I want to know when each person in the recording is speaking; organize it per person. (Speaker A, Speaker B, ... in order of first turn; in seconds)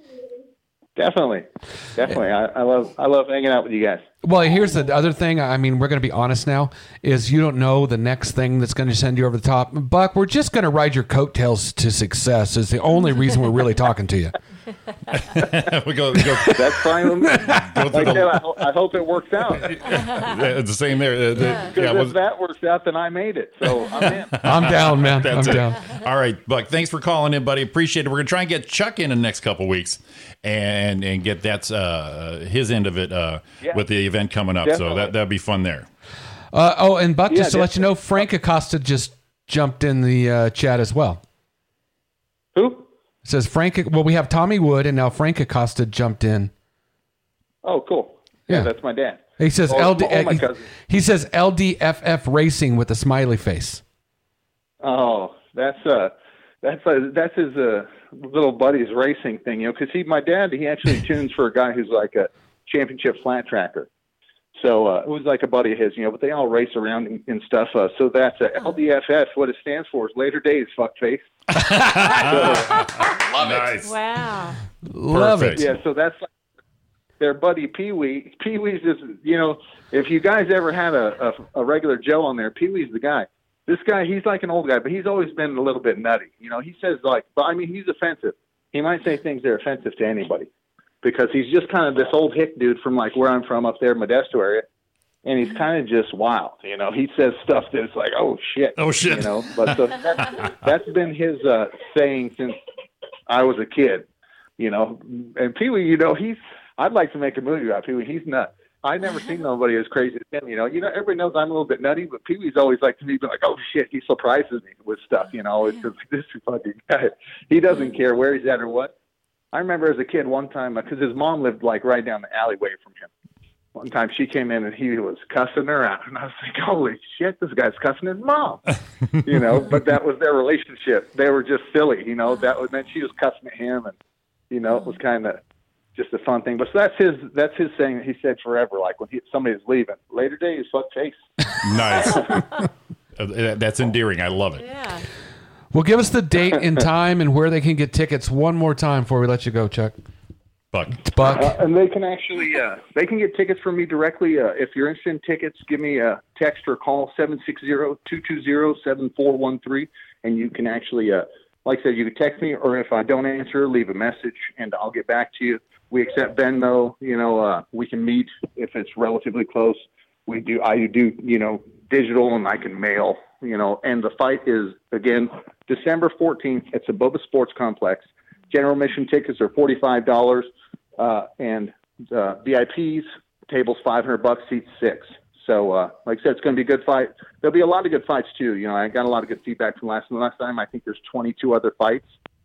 Speaker A: 0.9-4.0, 16.5-19.7, 21.6-24.4, 34.6-35.1, 37.3-38.2, 42.5-42.9, 47.6-50.6, 54.8-63.9, 64.5-71.3, 72.2-72.7, 75.6-76.3, 77.2-90.5, 91.0-94.7, 95.2-102.6, 103.3-118.9, 119.5-123.1, 123.7-128.6, 129.2-133.9, 134.5-135.4, 135.9-141.2, 151.3-192.1
Speaker B: 4.2-14.3, 17.1-17.9, 24.4-25.8, 36.5-41.2, 43.2-46.5, 49.4-53.8, 74.8-75.7, 145.7-149.9, 151.0-151.5
Speaker C: 15.1-16.8, 17.4-18.4, 19.6-22.2, 23.8-35.9, 71.6-74.0, 75.1-75.6, 98.8-100.5, 141.6-142.4, 143.2-144.7, 150.7-151.0
Speaker D: 20.0-20.4, 72.8-74.6, 144.6-145.1